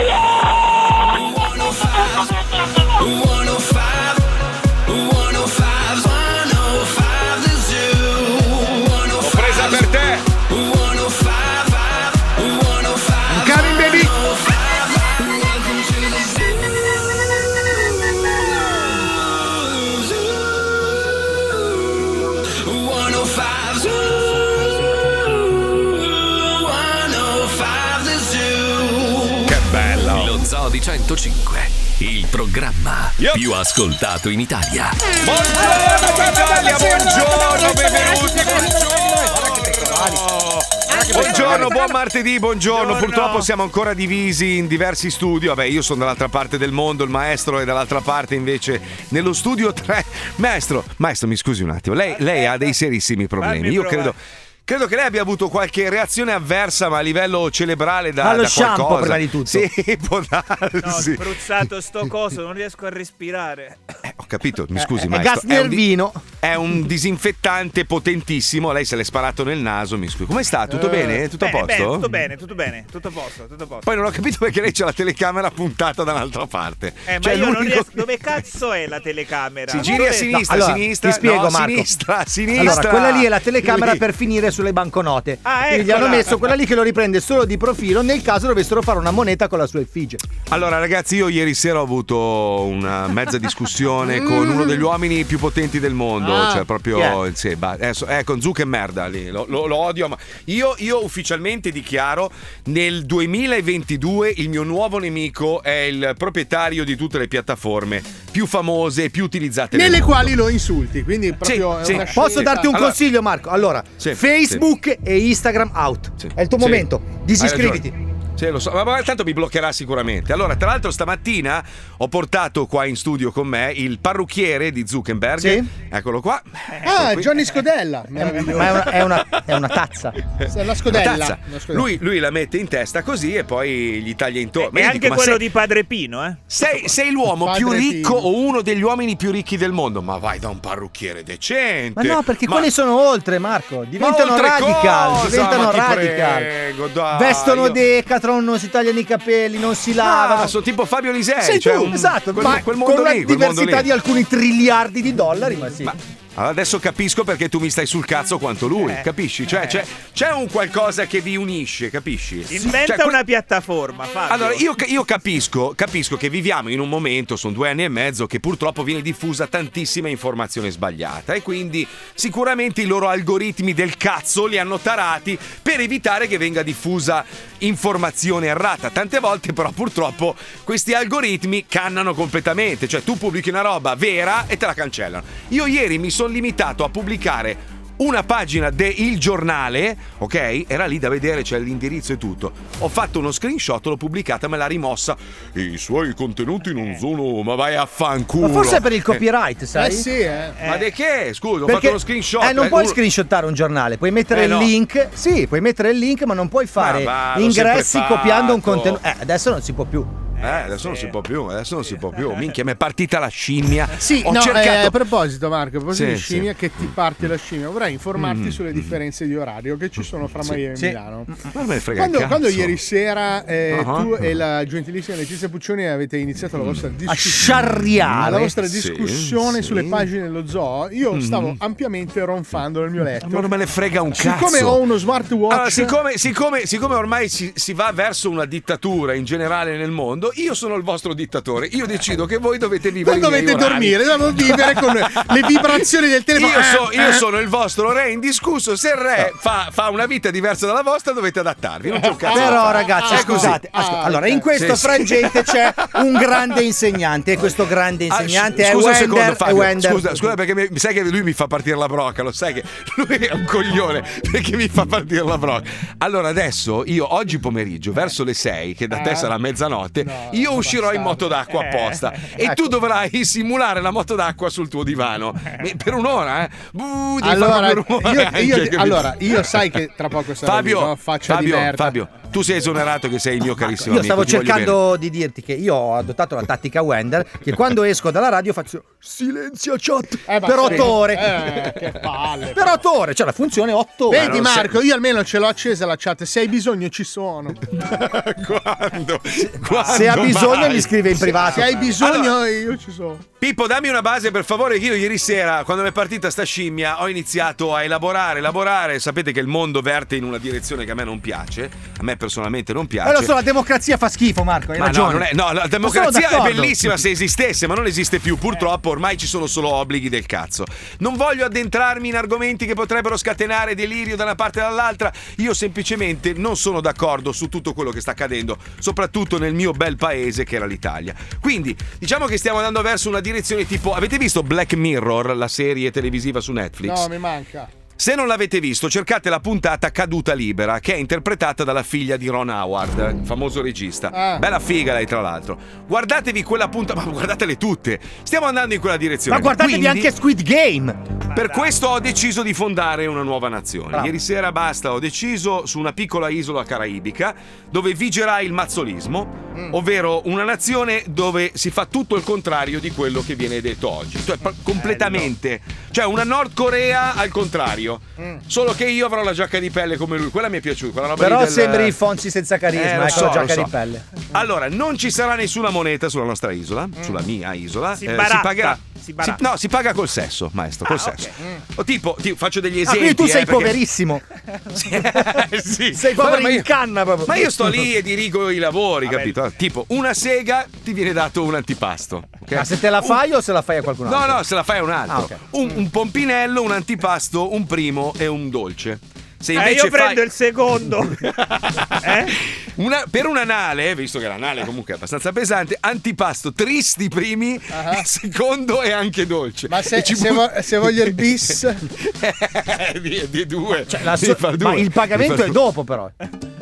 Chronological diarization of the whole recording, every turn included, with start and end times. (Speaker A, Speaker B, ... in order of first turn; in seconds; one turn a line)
Speaker A: 0.9-9.9
Speaker B: 9.2-10.3
Speaker A: 10.4-29.6
Speaker C: 13.3-14.1
Speaker B: 29.4-30.3
Speaker D: 30.0-35.0
Speaker B: 33.2-33.4
Speaker B: 35.2-61.6
Speaker C: 35.5-39.5
Speaker E: 39.3-40.2
Speaker E: 40.9-41.8
Speaker F: 41.1-41.9
Speaker F: 42.7-43.5
Speaker F: 52.1-52.8
Speaker F: 53.4-54.1
Speaker E: 58.2-59.6
Speaker F: 60.8-63.9
Speaker B: 64.1-65.8
Speaker E: 64.8-66.2
Speaker B: 66.4-72.1
Speaker F: 70.8-73.9
Speaker B: 73.8-78.0
Speaker F: 77.1-80.4
Speaker B: 79.7-84.0
Speaker E: 80.1-81.9
Speaker E: 82.5-90.2
Speaker F: 85.4-86.3
Speaker B: 90.5-110.4
Speaker C: 96.2-96.7
Speaker E: 96.9-97.2
Speaker C: 109.7-112.8
Speaker B: 111.4-113.0
Speaker E: 111.9-117.9
Speaker B: 114.0-114.6
Speaker B: 116.2-116.9
Speaker B: 117.4-127.5
Speaker E: 125.4-125.7
Speaker C: 126.8-128.9
Speaker E: 128.2-130.2
Speaker C: 130.5-131.9
Speaker B: 130.8-135.4
Speaker F: 134.6-136.4
Speaker B: 136.5-142.7
Speaker C: 137.3-138.3
Speaker E: 141.9-146.5
Speaker B: 144.0-147.8
Speaker E: 147.1-150.5
Speaker B: 150.0-153.9
Speaker E: 151.4-155.9
Speaker B: 155.8-163.2
Speaker F: 158.8-159.8
Speaker F: 162.5-164.8
Speaker B: 164.3-199.2
Speaker E: 198.4-200.1
Speaker C: 199.7-200.7
Speaker F: 200.6-200.8
Speaker B: 200.6-203.0
Speaker E: 201.6-210.1
Speaker B: 204.3-204.7
Speaker B: 206.8-209.0
Speaker F: 210.4-211.2
Speaker B: 210.4-215.0
Speaker F: 211.8-212.5
Speaker C: 214.0-221.3
Speaker B: 215.9-216.9
Speaker B: 218.2-219.0
Speaker B: 221.5-222.8
Speaker C: 221.9-233.5
Speaker B: 223.7-224.2
Speaker B: 226.6-226.8
Speaker E: 227.1-228.5
Speaker B: 228.6-230.1
Speaker B: 231.1-231.6
Speaker B: 233.2-234.8
Speaker C: 234.1-236.0
Speaker B: 235.5-253.6
Speaker C: 243.0-247.2
Speaker C: 251.9-254.9
Speaker E: 252.3-260.2
Speaker B: 254.6-255.9
Speaker B: 258.1-279.6
Speaker C: 268.9-269.3
Speaker C: 270.0-271.3
Speaker F: 271.6-272.4
Speaker C: 277.2-282.0
Speaker B: 280.4-284.8
Speaker E: 283.7-291.5
Speaker C: 290.2-292.9
Speaker E: 292.5-294.6
Speaker C: 294.1-297.6
Speaker B: 294.1-294.6
Speaker B: 297.8-302.4
Speaker E: 299.8-301.7
Speaker C: 300.1-303.2
Speaker B: 303.4-313.3
Speaker E: 313.0-315.3
Speaker B: 314.8-337.1
Speaker E: 315.8-317.0
Speaker C: 336.8-337.7
Speaker B: 338.0-350.1
Speaker C: 344.1-344.5
Speaker E: 349.3-351.0
Speaker F: 351.3-351.8
Speaker B: 351.3-372.0
Speaker F: 364.7-365.1
Speaker C: 368.2-368.4
Speaker E: 371.2-374.0
Speaker B: 372.7-373.7
Speaker B: 374.3-383.8
Speaker C: 377.0-377.2
Speaker F: 377.9-379.4
Speaker F: 380.9-381.3
Speaker E: 382.9-384.2
Speaker B: 384.7-386.7
Speaker E: 385.9-387.8
Speaker B: 387.2-393.2
Speaker F: 389.0-389.4
Speaker E: 392.5-394.4
Speaker B: 394.0-400.3
Speaker E: 395.1-395.4
Speaker F: 399.5-401.3
Speaker B: 401.3-415.6
Speaker F: 402.0-402.3
Speaker C: 407.7-408.1
Speaker C: 409.7-411.8
Speaker E: 413.9-416.1